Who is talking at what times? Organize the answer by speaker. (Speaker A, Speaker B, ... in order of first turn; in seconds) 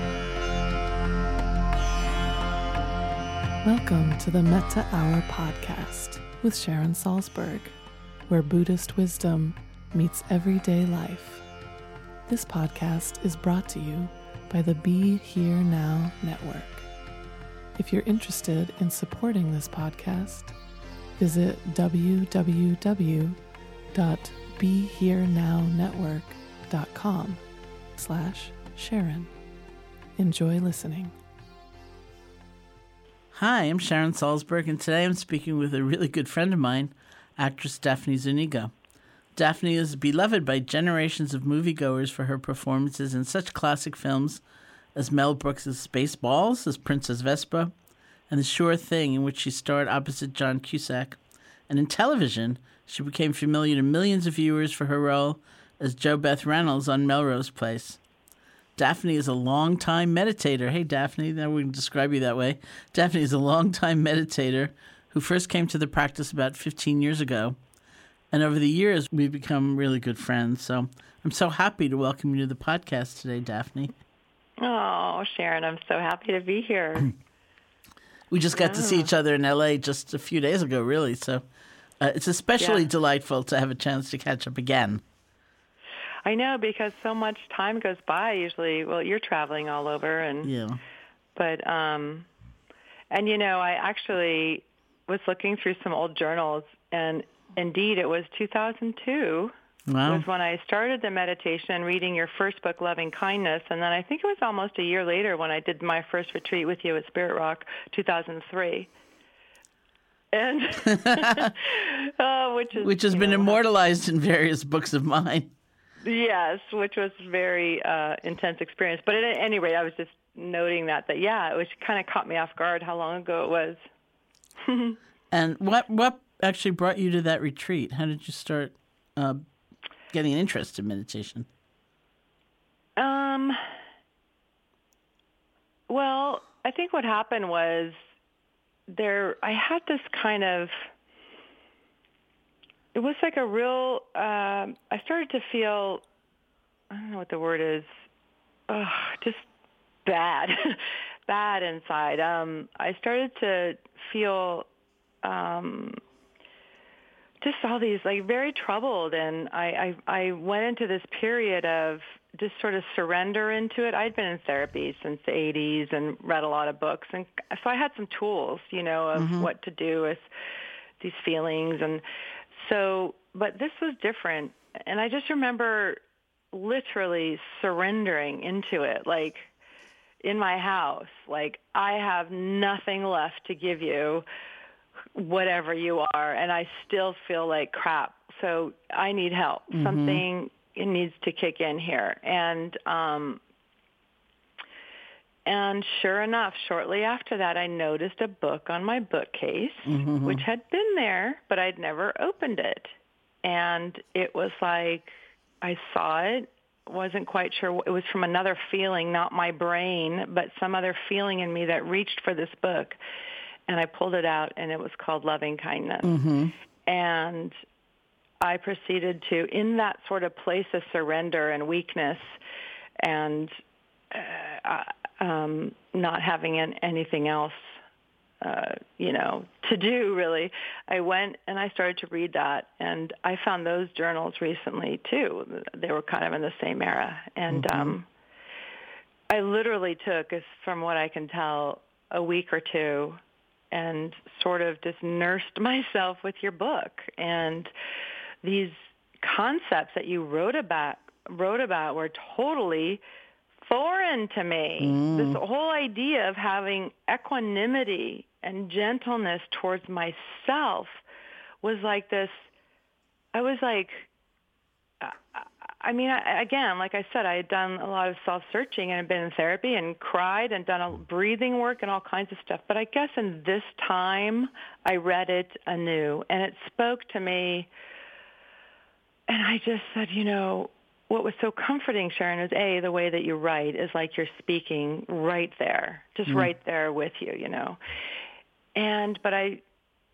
Speaker A: 3.6-7.8, 8.3-11.4, 12.3-16.9, 17.8-20.5, 21.2-23.4, 23.9-27.4, 27.9-29.3, 30.2-31.1
Speaker B: 33.3-38.7, 39.4-44.4, 45.0-47.7, 48.3-51.2, 51.7-58.0, 58.8-67.6, 68.3-73.9, 78.3-81.4, 82.0-85.0, 90.4-90.8, 99.9-100.3, 110.9-111.5, 112.8-115.5, 125.3-129.4, 130.1-131.5, 169.2-169.5, 189.7-190.2, 199.9-200.4, 216.0-216.5, 237.5-237.9, 254.8-255.4
Speaker C: 74.6-77.1, 78.5-79.1, 82.6-82.9, 86.2-90.5, 91.3-92.3, 93.1-99.5, 100.0-108.9, 110.3-113.6, 116.0-123.8, 124.6-125.0, 133.0-133.6, 135.9-138.0, 138.9-140.8, 142.9-146.0, 146.9-147.9, 148.7-149.5, 150.0-154.7, 155.2-156.0, 157.4-170.3, 171.0-172.0, 172.5-176.0, 176.5-179.5, 180.2-184.2, 185.2-193.4, 195.5-213.0, 213.7-216.1, 216.8-217.5, 218.4-222.4, 223.0-223.5, 224.1-227.8, 228.4-238.1, 239.3-243.2, 243.7-247.7, 248.4-253.0, 253.6-261.0, 261.6-262.5, 263.3-264.1, 265.0-277.7, 279.3-287.8, 288.8-289.6